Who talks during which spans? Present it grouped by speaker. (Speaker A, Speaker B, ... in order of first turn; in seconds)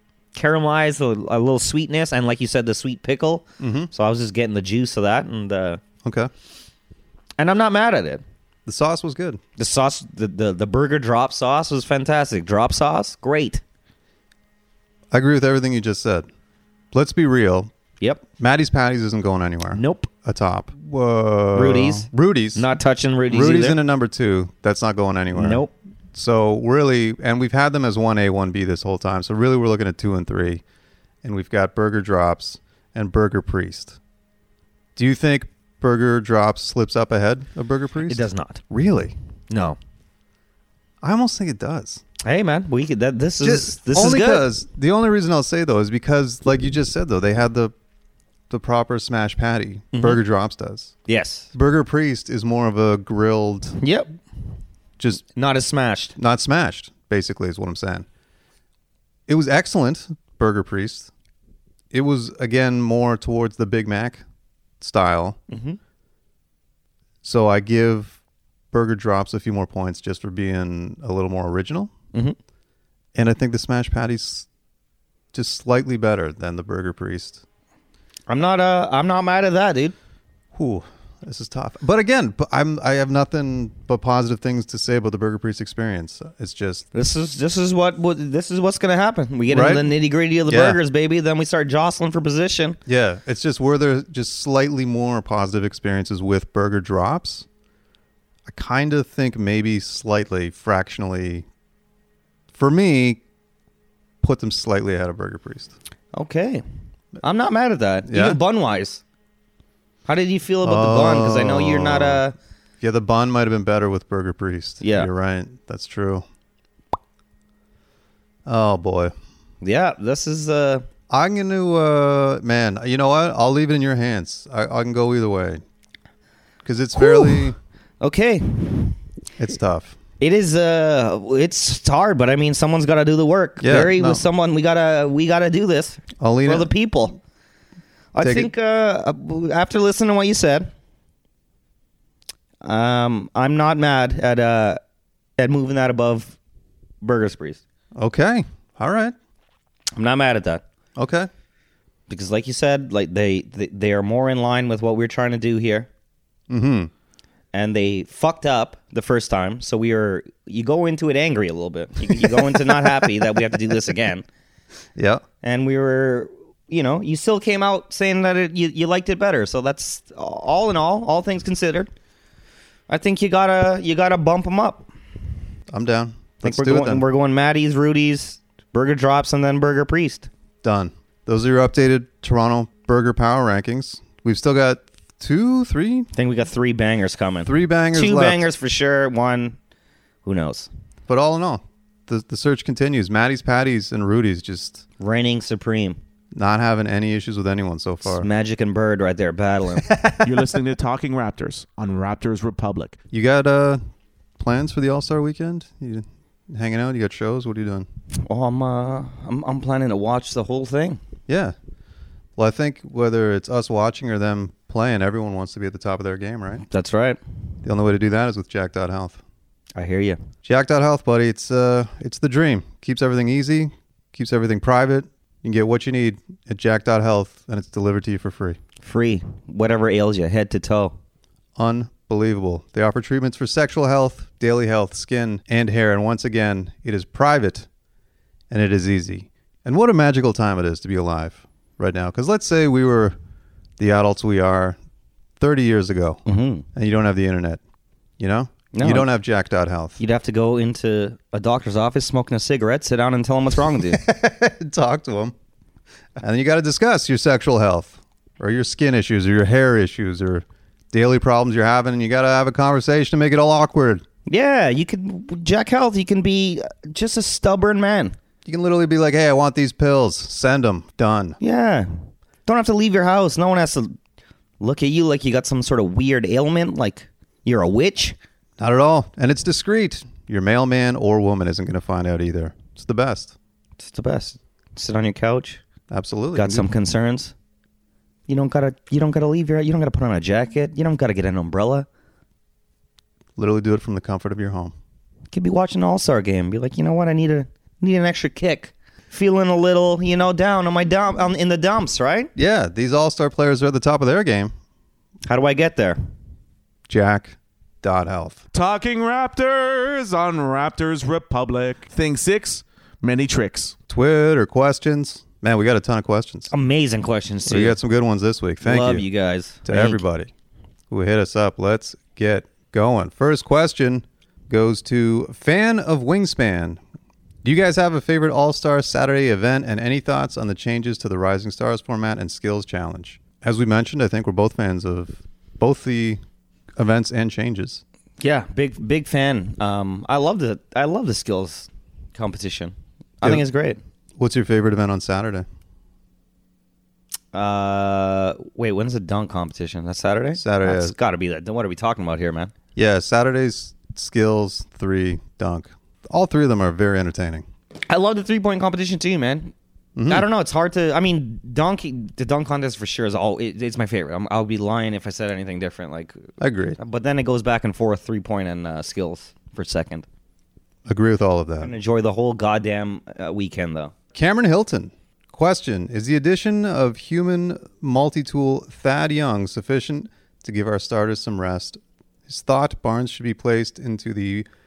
Speaker A: 0.3-5.8, 7.4-8.2, 9.6-13.6, 19.7-20.1, 21.5-23.8, 25.3-25.7, 38.0-38.6, 39.5-39.8, 42.2-44.5, 49.9-50.2, 51.1-51.5, 53.8-54.1, 55.3-56.1, 65.5-65.8, 78.3-79.9, 86.9-92.8, 106.1-106.6, 107.2-109.0, 110.0-112.3, 114.8-115.1, 119.6-120.8, 127.0-129.0, 130.2-137.2, 138.1-140.7, 142.6-144.8, 145.4-146.3, 147.0-147.6, 149.9-150.6, 152.1-155.9, 157.5-164.2, 165.4-171.9, 172.9-174.9, 176.4-180.3, 186.1-189.6, 190.2-190.7, 195.0-196.0, 198.0-199.9, 208.2-211.0, 216.7-217.2, 219.7-220.2, 228.8-230.9, 246.2-246.7, 248.7-249.1, 250.0-254.0, 264.2-268.1, 271.4-271.9, 272.4-273.9, 274.6-278.2, 283.8-285.6, 286.3-287.3, 288.3-291.9, 295.3-302.3, 305.2-306.0, 316.5-317.8, 318.6-320.0, 338.2-343.8, 347.3-352.5, 357.8-359.5, 360.1-366.2, 366.8-370.1, 371.6-373.9
Speaker B: 3.6-3.9, 6.0-6.3, 8.7-9.4, 15.1-16.3, 16.9-17.7, 18.4-22.6, 23.3-25.6, 26.1-30.6, 31.2-34.0, 35.0-39.1, 41.0-42.0, 43.4-47.7, 48.5-50.9, 51.5-53.8, 56.1-58.0, 59.3-61.1, 61.9-64.2, 64.8-65.4, 67.2-68.2, 68.7-71.9, 73.1-74.5, 75.3-77.4, 80.5-86.9, 89.5-89.9, 90.5-90.8, 92.9-97.5, 98.5-101.5, 102.5-103.2, 104.2-105.7, 108.1-108.4, 110.6-112.2, 112.8-116.2, 118.5-119.1, 121.1-125.6, 126.6-127.6, 129.4-130.0, 133.6-134.2, 136.2-136.7, 138.2-138.5, 147.9-149.1, 151.0-151.3, 156.5-156.9, 162.1-163.1, 164.9-165.2, 175.7-177.0, 180.6-186.1, 187.4-188.5, 191.1-194.8, 196.3-198.3, 203.1-203.8, 204.4-207.9, 211.3-211.5, 212.4-216.6, 217.6-219.2, 220.4-228.6, 231.6-237.7, 238.5-243.2, 243.8-244.8, 245.4-246.2, 246.7-247.6, 248.2-250.0, 253.8-255.3, 256.2-264.0, 268.4-271.4, 278.6-283.3, 285.9-286.7, 293.4-294.7, 302.4-304.5, 306.9-308.4, 313.9-316.5, 317.4-319.1, 319.6-320.3, 320.9-326.8, 327.4-336.2, 336.8-337.8, 344.2-345.4, 350.4-350.9, 352.8-357.4, 359.9-360.2, 366.4-366.8, 370.9-371.7, 374.1-384.4
Speaker C: 200.2-203.0, 308.5-313.7